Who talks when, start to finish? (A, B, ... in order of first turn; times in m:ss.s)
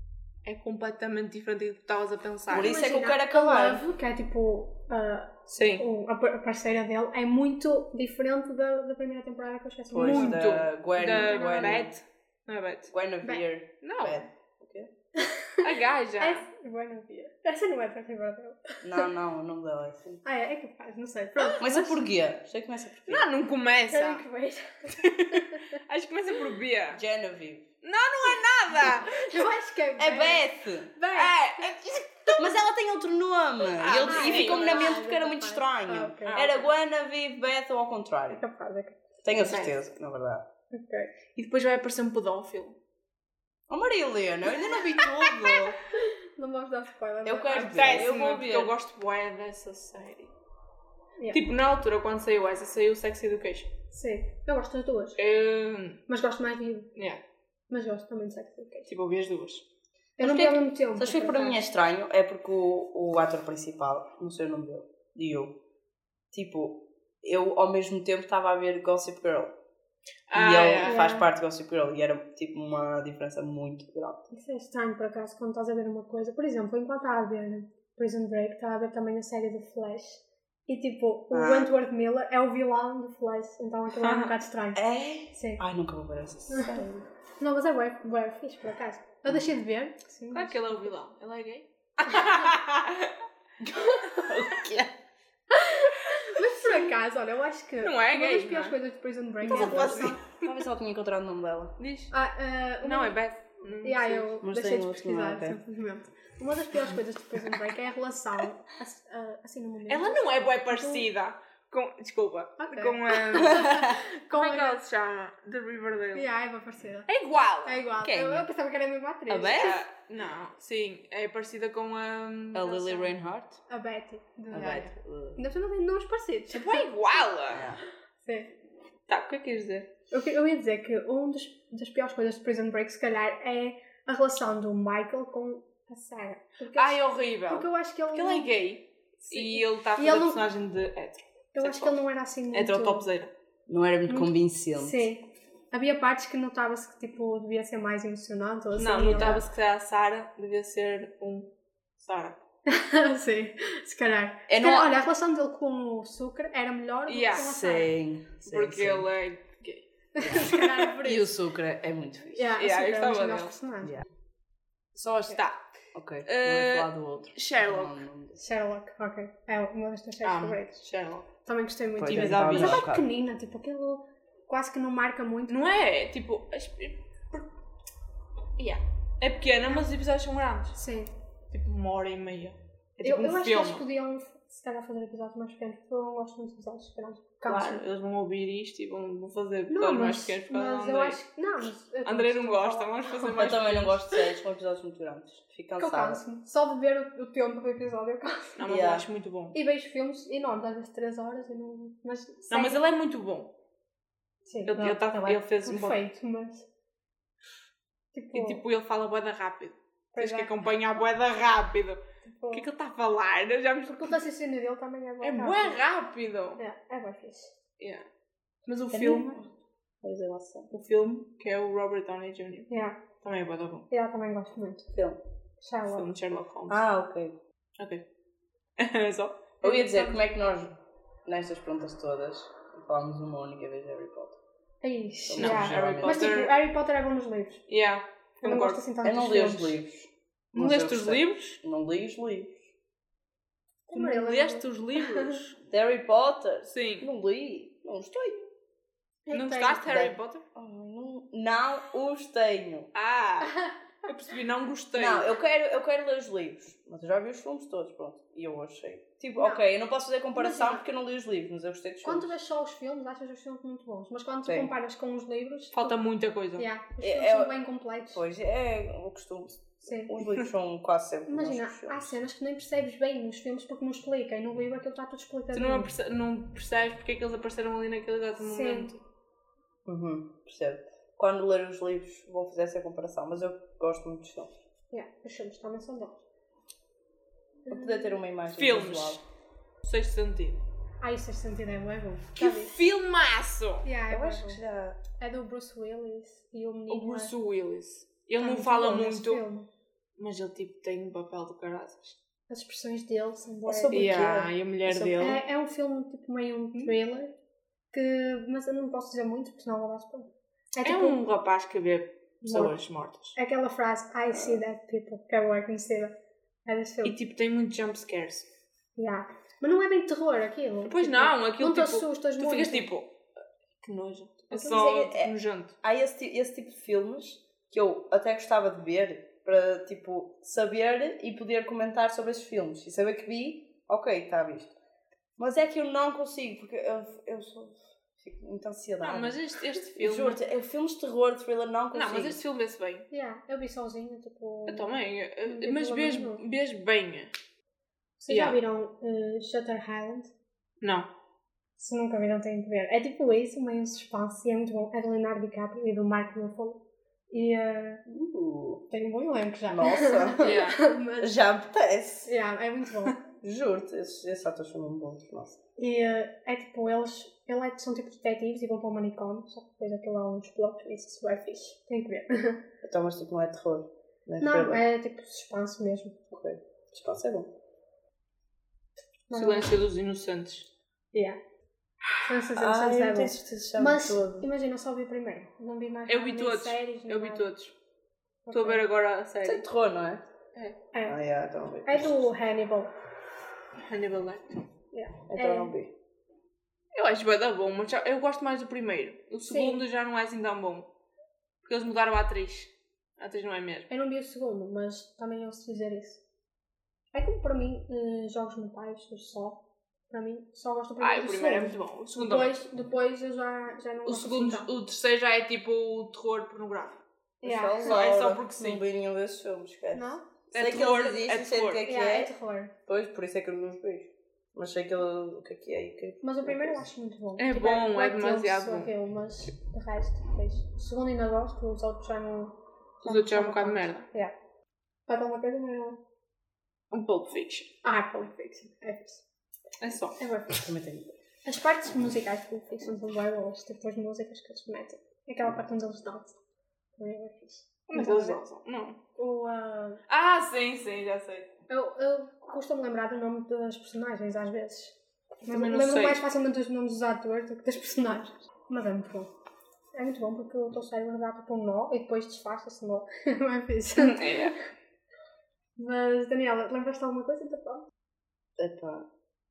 0:00.4-0:02.8 A
0:02.5-0:03.8 B
0:02.5-0:10.4 C
0:05.5-0:05.8 A
0:09.9-0:11.9 B
0:10.0-0:12.9 A
0:11.1-0:11.9 C
0:12.9-0:14.9 B
0:13.8-0:14.2 A
0:15.2-0:19.1 C
0:15.6-0:16.4 A
0:18.8-0:20.2 B
0:20.2-0:22.1 C
0:21.6-0:23.3 B
0:23.1-0:24.2 A
0:23.9-0:25.8 C
0:25.0-0:27.0 A
0:26.9-0:27.6 B
0:27.8-0:29.4 A
0:28.8-0:31.7 C
0:30.0-0:30.9 B
0:31.1-0:32.6 A
0:32.4-0:38.4 B
0:33.8-0:35.0 A
0:34.0-0:36.4 C
0:36.3-0:36.7 A
0:38.3-0:39.0 C
0:39.2-0:40.4 B
0:39.4-0:39.7 A
0:40.7-0:41.1 C
0:41.4-0:42.8 A
0:43.7-0:45.8 B
0:45.0-0:48.1 C
0:47.2-0:48.7 B
0:47.6-0:50.3 A
0:51.3-0:53.7 A
0:53.9-0:55.2 C
0:55.2-0:56.0 A
0:56.1-0:56.9 C
0:57.0-0:57.2 A
0:57.7-0:58.9 C
0:58.9-0:59.6 A
1:00.2-1:01.6 C
1:00.2-1:05.5 B
1:06.3-1:09.5 B
1:10.3-1:11.0 A
1:10.3-1:14.2 B
1:10.8-1:11.3 C
1:14.3-1:25.6 C
1:21.3-1:21.7 B
1:24.0-1:24.3 A
1:24.8-1:27.0 B
1:26.5-1:26.9 C
1:27.4-1:30.8 C
1:30.3-1:33.1 A
1:32.1-1:32.5 C
1:33.6-1:34.9 B
1:33.7-1:34.5 C
1:35.5-1:40.2 C
1:37.8-1:38.8 A
1:39.4-1:40.5 A
1:39.4-1:41.8 B
1:41.8-1:42.1 A
1:42.1-1:43.2 C
1:42.8-1:44.3 A
1:43.8-1:51.1 C
1:44.4-1:45.6 B
1:49.9-1:53.8 A
1:52.6-1:54.8 C
1:53.4-1:54.0 B
1:54.3-1:56.3 A
1:56.2-1:57.1 C
1:57.1-1:57.8 A
1:57.6-1:59.8 C
1:58.0-1:58.5 B
1:59.3-1:59.8 B
1:59.4-2:03.2 A
2:02.5-2:03.6 B
2:03.7-2:06.9 C
2:04.5-2:05.4 B
2:06.5-2:07.7 A
2:07.5-2:07.8 B
2:08.2-2:08.5 C
2:09.1-2:09.9 A
2:10.1-2:18.5 C
2:16.8-2:22.0 A
2:19.3-2:20.4 C
2:21.6-2:23.0 C
2:22.5-2:23.3 A
2:23.7-2:25.1 B
2:24.1-2:29.4 C
2:28.8-2:32.4 A
2:32.7-2:37.9 C
2:34.5-2:35.0 B
2:37.1-2:37.6 A
2:37.3-2:39.1 B
2:38.4-2:40.7 A
2:40.2-2:41.3 C
2:40.2-2:42.5 B
2:42.3-2:43.9 C
2:42.6-2:43.6 A
2:45.0-2:45.6 A
2:45.9-2:48.4 B
2:46.2-2:47.9 A
2:48.4-2:50.8 C
2:50.2-2:51.3 A
2:51.4-2:55.6 C
2:52.0-2:53.0 B
2:52.1-2:52.9 A
2:55.5-2:57.5 A
2:58.6-3:00.8 A
3:00.8-3:01.1 C
3:01.5-3:03.8 A
3:03.0-3:07.8 C
3:07.5-3:11.2 A
3:09.7-3:13.3 C
3:12.1-3:14.0 A
3:13.3-3:16.2 B
3:15.8-3:18.6 C
3:18.6-3:19.6 A
3:18.7-3:19.1 B
3:19.5-3:22.8 C
3:22.5-3:23.5 A
3:24.5-3:26.6 C
3:24.7-3:26.0 A
3:28.1-3:28.6 C
3:28.3-3:34.2 A
3:30.1-3:30.5 C
3:32.2-3:32.7 C
3:33.9-3:35.8 C
3:35.2-3:36.6 A
3:36.6-3:37.5 C
3:37.8-3:38.0 A
3:38.7-3:39.4 A
3:38.9-3:39.2 C
3:40.0-3:40.7 B
3:40.7-3:42.7 A
3:42.7-3:43.0 C
3:43.2-3:43.9 A
3:43.9-3:44.9 C
3:44.9-3:45.2 B
3:45.6-3:46.1 C
3:45.9-3:46.8 A
3:46.7-3:47.4 B
3:48.8-3:49.6 A
3:49.6-3:50.7 B
3:49.6-3:50.2 C
3:51.3-3:54.4 B
3:54.8-3:57.6 C
3:55.3-3:56.4 B
3:55.4-3:56.5 A
3:57.7-3:58.9 A
3:58.4-3:59.8 C
3:59.0-4:02.6 B
4:00.5-4:01.6 A
4:03.9-4:05.4 C
4:03.9-4:05.6 A
4:05.7-4:08.5 B
4:06.7-4:07.1 A
4:09.3-4:10.1 C
4:09.3-4:10.4 A
4:09.9-4:12.9 B
4:12.9-4:15.4 A
4:13.4-4:13.8 C
4:15.0-4:22.3 B
4:19.4-4:19.6 C
4:20.4-4:20.8 C
4:22.0-4:26.0 C
4:24.5-4:24.7 B
4:25.7-4:26.7 A
4:26.6-4:28.2 C
4:27.0-4:27.6 B
4:28.1-4:32.2 B
4:29.8-4:30.1 C
4:31.3-4:35.9 C
4:35.5-4:39.0 A
4:38.4-4:38.9 C
4:39.9-4:44.5 B
4:44.9-4:46.2 C
4:47.7-4:48.2 C
4:47.7-4:49.2 B
4:48.5-4:49.2 A
4:49.8-4:50.6 A
4:51.0-4:52.8 C
4:52.4-4:53.9 A
4:53.8-4:54.6 C
4:54.1-4:55.0 B
4:55.2-4:57.3 C
4:56.9-4:59.4 A
4:58.4-4:59.7 C
5:00.2-5:02.2 A
5:02.5-5:04.2 C
5:03.7-5:04.5 B
5:03.9-5:05.4 A
5:04.9-5:07.3 C
5:07.9-5:11.2 C
5:10.8-5:13.4 A
5:12.5-5:12.7 C
5:13.4-5:16.1 C
5:16.7-5:17.2 C
5:17.0-5:18.5 A
5:19.0-5:22.9 C
5:20.8-5:23.1 A
5:23.8-5:25.8 A
5:24.5-5:24.8 C
5:24.6-5:34.7 B
5:35.4-5:39.4 B
5:39.0-5:40.4 A
5:40.0-5:42.4 B
5:41.9-5:43.1 A
5:43.1-5:44.9 C
5:44.7-5:47.3 A
5:45.4-5:46.4 C
5:48.2-5:50.3 C
5:48.3-5:48.6 A
5:50.8-5:51.1 A
5:51.8-5:58.0 C
5:58.1-5:58.8 B
5:58.9-6:01.4 C
5:59.7-6:00.6 B
6:00.4-6:00.8 A
6:01.2-6:02.3 B
6:02.3-6:03.2 C
6:03.4-6:05.6 B
6:05.8-6:12.6 C
6:12.8-6:14.8 B
6:14.4-6:16.2 C
6:16.3-6:17.5 B
6:19.3-6:19.8 C
6:19.3-6:20.7 A
6:21.1-6:21.4 C
6:22.1-6:24.5 B
6:22.2-6:27.5 C
6:26.1-6:27.7 A
6:28.5-6:28.8 C
6:28.5-6:29.6 A
6:29.4-6:30.2 B
6:30.9-6:31.2 C
6:31.1-6:32.3 B
6:31.8-6:32.9 C
6:33.8-6:34.6 A
6:34.9-6:35.7 C
6:35.3-6:35.9 B
6:36.9-6:40.9 A
6:39.4-6:39.8 C
6:41.6-6:43.9 A
6:43.9-6:46.2 C
6:47.1-6:54.7 C
6:51.0-6:52.6 A
6:54.1-6:57.0 A
6:57.4-6:57.9 C
6:57.4-7:02.3 B
6:57.9-6:58.8 A
6:59.9-7:00.2 C
7:00.5-7:01.8 A
7:01.9-7:02.7 C
7:02.9-7:06.9 B
7:06.2-7:14.3 C
7:07.4-7:08.9 A
7:13.0-7:14.1 A
7:15.1-7:16.0 C
7:16.9-7:17.7 A
7:17.8-7:19.2 C
7:19.8-7:20.2 A
7:20.2-7:20.7 C
7:20.6-7:21.1 B
7:21.4-7:26.4 C
7:27.0-7:28.4 C
7:27.9-7:29.0 A
7:29.2-7:30.0 C
7:30.1-7:31.5 A
7:31.7-7:39.3 C
7:35.5-7:36.2 A
7:40.0-7:44.5 C
7:44.0-7:44.6 A
7:45.8-7:47.9 C
7:48.6-7:49.1 B